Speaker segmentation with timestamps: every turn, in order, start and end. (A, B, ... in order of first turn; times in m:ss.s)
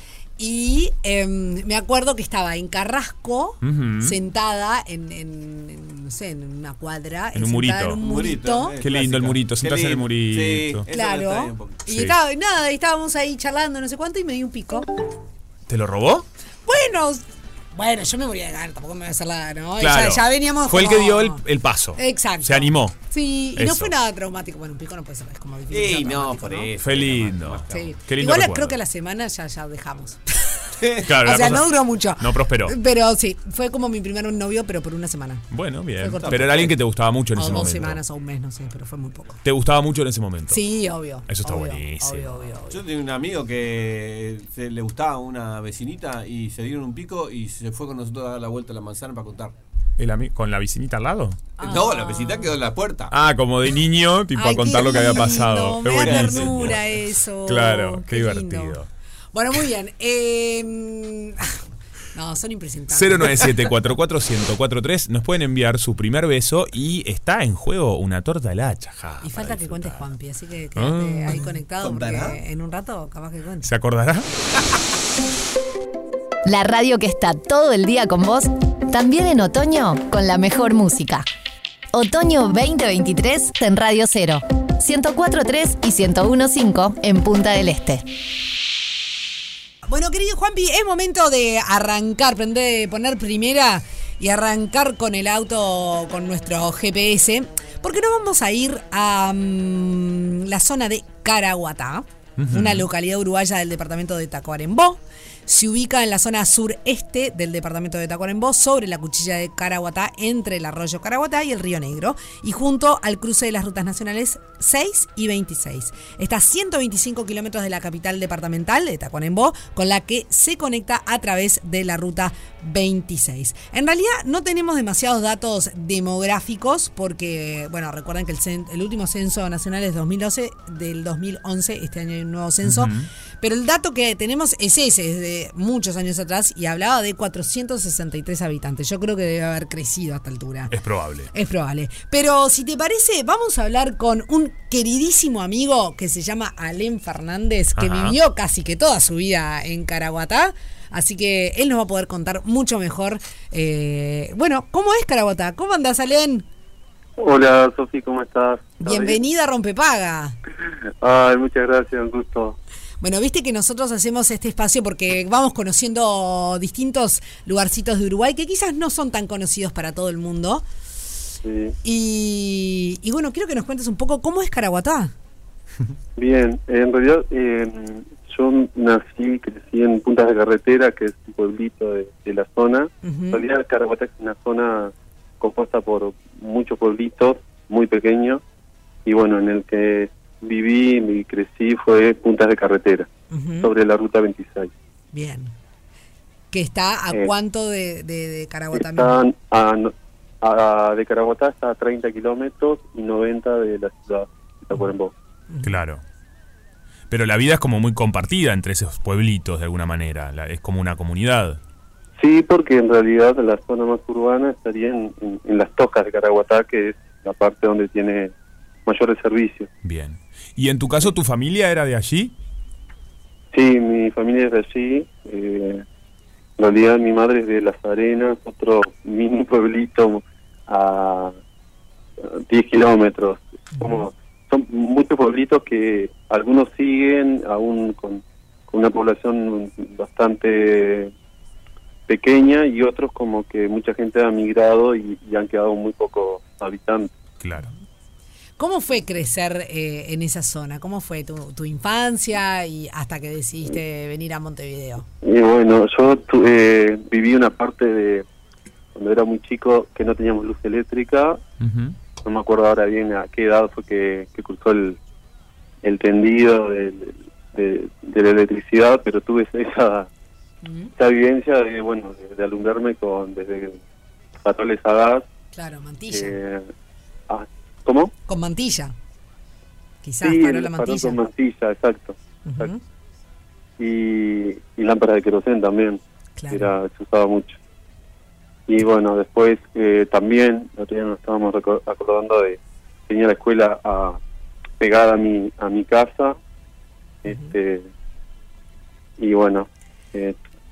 0:00.4-0:08.8 A
0:03.6-0:04.2 B
0:07.4-0:08.0 B
0:08.0-0:11.8 C
0:08.8-0:10.9 B
0:10.9-0:14.9 A
0:11.9-0:12.2 B
0:15.7-0:16.3 B
0:16.7-0:17.2 A
0:17.7-0:21.4 A
0:19.8-0:23.0 B
0:22.0-0:26.7 A
0:23.6-0:24.0 B
0:25.7-0:28.0 C
0:26.8-0:28.8 B
0:27.7-0:35.5 A
0:31.0-0:32.8 B
0:35.5-0:38.0 B
0:36.0-0:36.6 A
0:36.2-0:36.8 C
0:37.3-0:39.4 A
0:39.4-0:40.6 B
0:40.5-0:42.8 A
0:41.3-0:42.5 B
0:42.7-0:49.5 C
0:50.0-0:51.5 B
0:51.6-0:52.5 A
0:51.6-0:53.1 C
0:53.1-0:56.8 B
0:54.3-0:58.8 A
0:56.0-0:56.8 C
0:57.4-0:58.9 B
0:59.3-1:01.6 A
1:02.1-1:03.6 A
1:02.9-1:10.1 B
1:09.2-1:13.7 A
1:10.8-1:11.4 B
1:11.8-1:12.4 C
1:13.6-1:14.3 B
1:16.4-1:21.3 D
1:21.9-1:28.0 D
1:29.9-2:20.8 A
1:42.4-1:42.9 B
2:12.6-2:13.1 B
2:20.7-2:21.3 B
2:21.3-2:36.5 A
2:27.8-2:28.2 B
2:37.2-2:39.2 E
2:38.8-2:40.4 A
2:41.0-2:42.6 E
2:43.0-2:50.6 A
2:51.4-2:51.8 E
2:51.8-2:55.1 A
2:56.2-3:08.4 E
3:03.0-3:03.4 A
3:09.1-3:13.1 E
3:13.3-3:13.7 A
3:13.6-3:14.7 E
3:15.1-3:15.5 A
3:16.5-3:19.2 A
3:18.7-3:25.1 E
3:25.5-3:25.8 A
3:25.6-3:26.0 B
3:27.1-3:31.6 B
3:32.2-3:38.3 E
3:38.9-3:39.7 E
3:39.8-3:42.3 B
3:43.5-3:45.8 E
3:46.6-3:51.4 E
3:52.2-4:01.1 E
4:02.1-4:07.1 E
4:07.4-4:07.7 B
4:08.6-4:15.0 A
4:15.2-4:18.2 E
4:19.0-4:21.4 E
4:21.6-4:22.0 B
4:22.2-4:25.0 E
4:25.8-4:30.1 E
4:30.6-4:30.9 A
4:31.0-4:33.8 E
4:34.4-4:35.3 E
4:35.5-4:36.4 A
4:36.1-4:36.7 E
4:37.3-4:38.1 E
4:38.3-4:38.9 A
4:40.0-4:41.2 A
4:40.2-4:42.7 E
4:42.5-4:42.8 A
4:43.8-4:47.6 E
4:46.4-4:46.8 A
4:48.7-4:54.2 E
4:54.8-4:56.4 E
4:57.2-4:57.9 E
4:57.3-4:57.5 A
4:59.2-5:00.4 E